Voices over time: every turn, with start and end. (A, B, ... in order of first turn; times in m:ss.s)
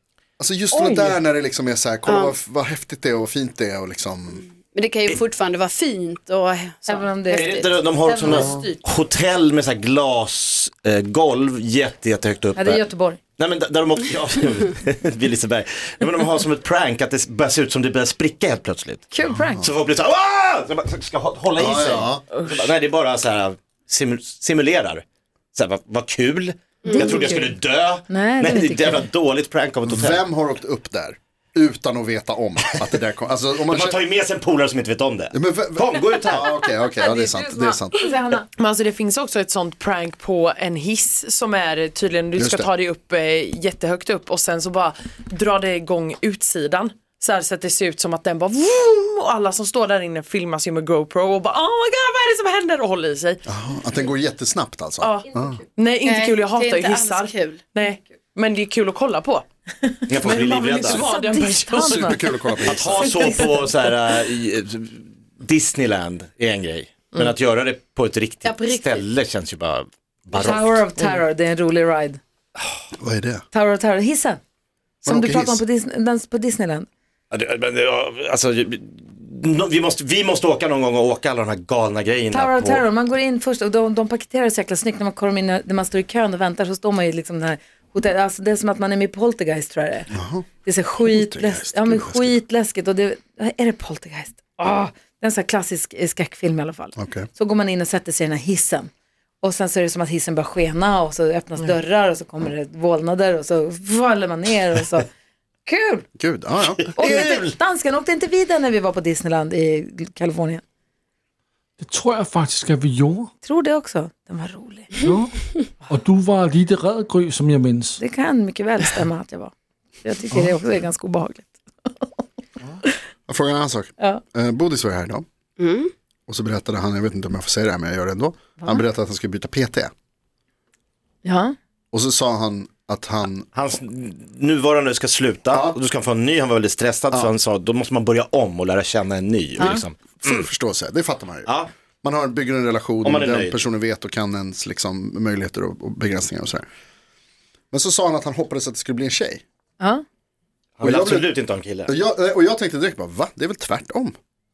0:00.4-0:04.4 A
0:00.7-0:01.2 B
0:02.1-0:02.4 C
0:04.6-0:07.6 C
0:06.9-0:08.8 D
0:07.3-0:12.8 E
0:12.6-0:13.2 D
0:13.4-0:19.0 E
0:19.1-0:19.7 D
0:19.4-0:19.7 A
0:19.6-0:30.2 E
0:21.6-0:22.2 A
0:26.8-0:27.3 C
0:26.9-0:27.6 D
0:28.1-0:29.1 D
0:29.9-0:34.0 A
0:33.6-0:36.6 E
0:35.3-0:38.1 A
0:36.6-0:38.5 D
0:38.6-0:53.4 B
0:42.4-0:42.7 A
0:53.5-0:55.6 A
0:55.0-0:59.4 B
0:56.0-0:57.7 C
1:00.1-1:01.1 E
1:00.1-1:02.3 B
1:01.0-1:03.7 D
1:01.8-1:03.2 A
1:02.6-1:10.8 E
1:08.4-1:09.1 C
1:10.3-1:12.2 D
1:13.0-1:13.4 A
1:13.5-1:14.4 D
1:15.0-1:15.6 A
1:15.0-1:16.9 D
1:17.3-1:22.8 E
1:22.3-1:30.1 D
1:30.1-1:30.5 A
1:30.6-1:38.9 D
1:31.1-1:32.4 A
1:37.0-1:37.3 A
1:39.4-1:45.1 D
1:45.6-1:46.1 D
1:46.2-1:46.9 A
1:46.7-1:47.5 E
1:47.0-1:50.6 D
1:51.8-1:53.3 F
1:53.4-1:54.9 D
1:55.0-1:55.3 F
1:55.9-1:58.0 F
1:58.0-2:02.1 D
2:03.3-2:05.2 A
2:05.6-2:05.9 C
2:06.3-2:09.9 A
2:11.2-2:11.6 D
2:11.9-2:13.5 A
2:13.5-2:20.5 E
2:15.5-2:15.8 A
2:19.6-2:21.5 A
2:21.4-2:21.7 E
2:22.0-2:26.6 A
2:23.0-2:23.6 E
2:27.7-2:29.4 A
2:29.8-2:30.0 D
2:30.8-2:31.9 E
2:30.8-2:31.3 A
2:31.9-2:34.2 A